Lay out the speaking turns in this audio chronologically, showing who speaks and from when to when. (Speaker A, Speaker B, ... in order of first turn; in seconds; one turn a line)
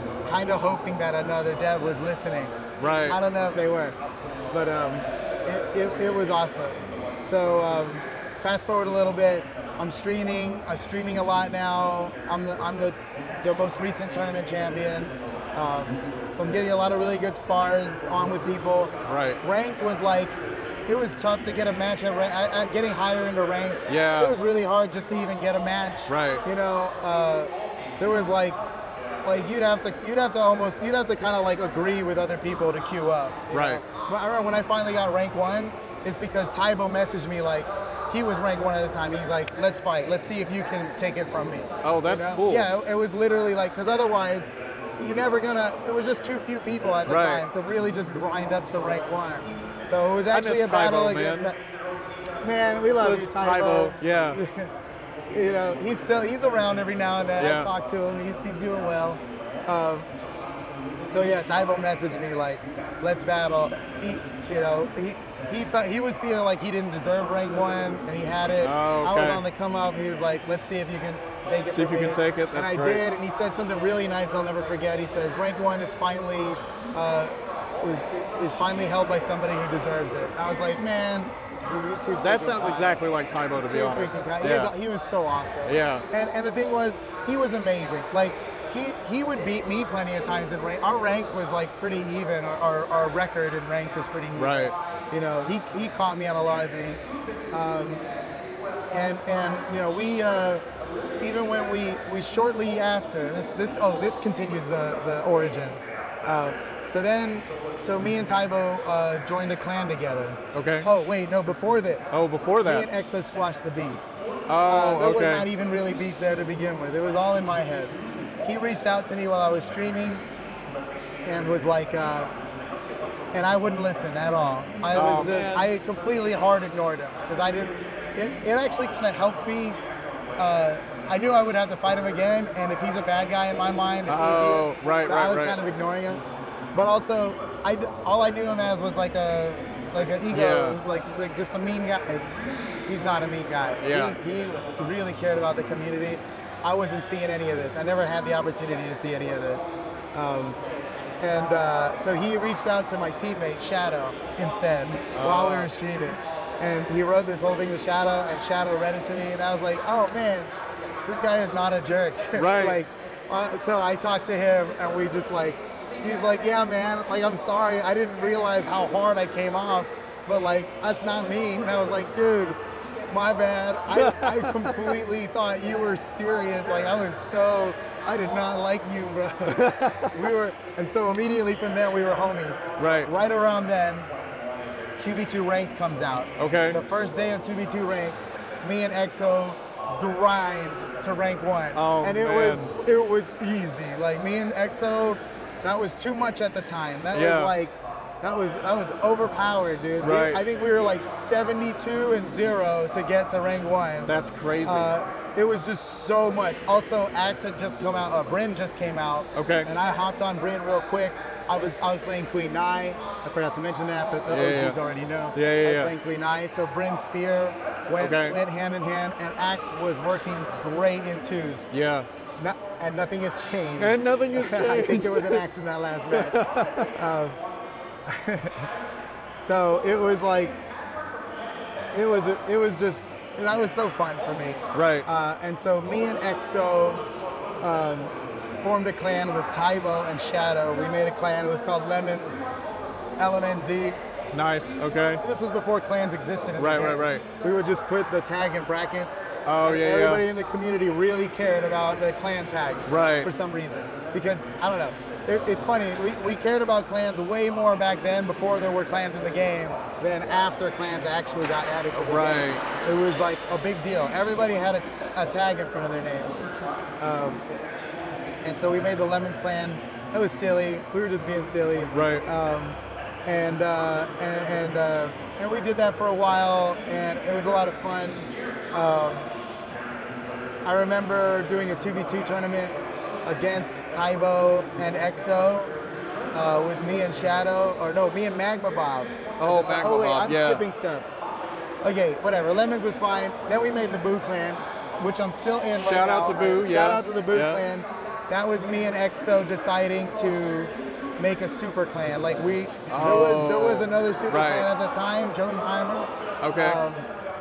Speaker A: 0.2-4.0
Speaker B: 2.8-3.2
Speaker A: 4.5-28.6
Speaker B: 19.0-19.4
Speaker B: 23.9-24.4
Speaker B: 26.1-26.4
Speaker A: 29.2-51.6
Speaker B: 33.5-33.8
Speaker B: 41.8-42.7
Speaker B: 47.1-47.4
Speaker B: 50.3-51.5
Speaker A: 52.4-54.7
Speaker B: 53.0-54.4
Speaker A: 55.3-60.1
Speaker B: 57.4-57.7
Speaker A: 61.1-83.0
Speaker B: 68.5-69.4
Speaker B: 71.7-73.0
Speaker B: 82.2-84.7
Speaker A: 83.5-98.0
Speaker B: 85.7-86.0
Speaker B: 94.3-94.7
Speaker A: 98.9-100.6
Speaker A: 101.2-114.0
Speaker B: 110.5-110.9
Speaker B: 112.1-112.9
Speaker B: 114.5-115.5
Speaker A: 114.7-120.2
Speaker A: 121.2-122.3
Speaker A: 123.3-129.8
Speaker B: 124.9-125.7
Speaker A: 130.4-142.3
Speaker B: 134.1-135.6
Speaker B: 140.3-140.8
Speaker A: 142.9-150.6
Speaker B: 143.8-144.1
Speaker A: 151.2-160.5
Speaker B: 155.1-155.7
Speaker A: 161.1-172.6
Speaker B: 162.3-162.8
Speaker A: 173.1-184.1
Speaker B: 173.9-175.0
Speaker B: 179.5-180.2
Speaker B: 182.8-183.1
Speaker A: 185.0-204.1
Speaker B: 186.4-186.8
Speaker B: 191.7-192.7
Speaker B: 197.1-197.5
Speaker B: 200.0-200.4
Speaker B: 204.1-204.9
Speaker A: 204.6-221.7
Speaker B: 209.3-209.7
Speaker B: 214.3-214.8
Speaker B: 215.3-215.9
Speaker B: 218.0-218.4
Speaker B: 221.7-222.1
Speaker A: 222.4-227.4
Speaker B: 223.8-225.4
Speaker B: 226.1-226.9
Speaker A: 228.1-228.7
Speaker A: 229.4-230.6
Speaker A: 231.9-237.0
Speaker B: 234.7-235.1
Speaker A: 237.6-242.4
Speaker A: 243.2-244.0
Speaker B: 244.3-245.2
Speaker A: 245.2-266.5
Speaker B: 246.6-247.2
Speaker B: 249.4-250.2
Speaker B: 252.9-253.3
Speaker B: 262.0-262.6
Speaker A: 267.0-267.4
Speaker A: 268.4-279.3
Speaker B: 271.9-272.2
Speaker A: 280.6-285.7
Speaker A: 286.3-291.1
Speaker B: 289.4-290.6
Speaker A: 291.8-307.1
Speaker B: 295.8-297.6
Speaker B: 302.9-304.7
Speaker B: 306.4-306.8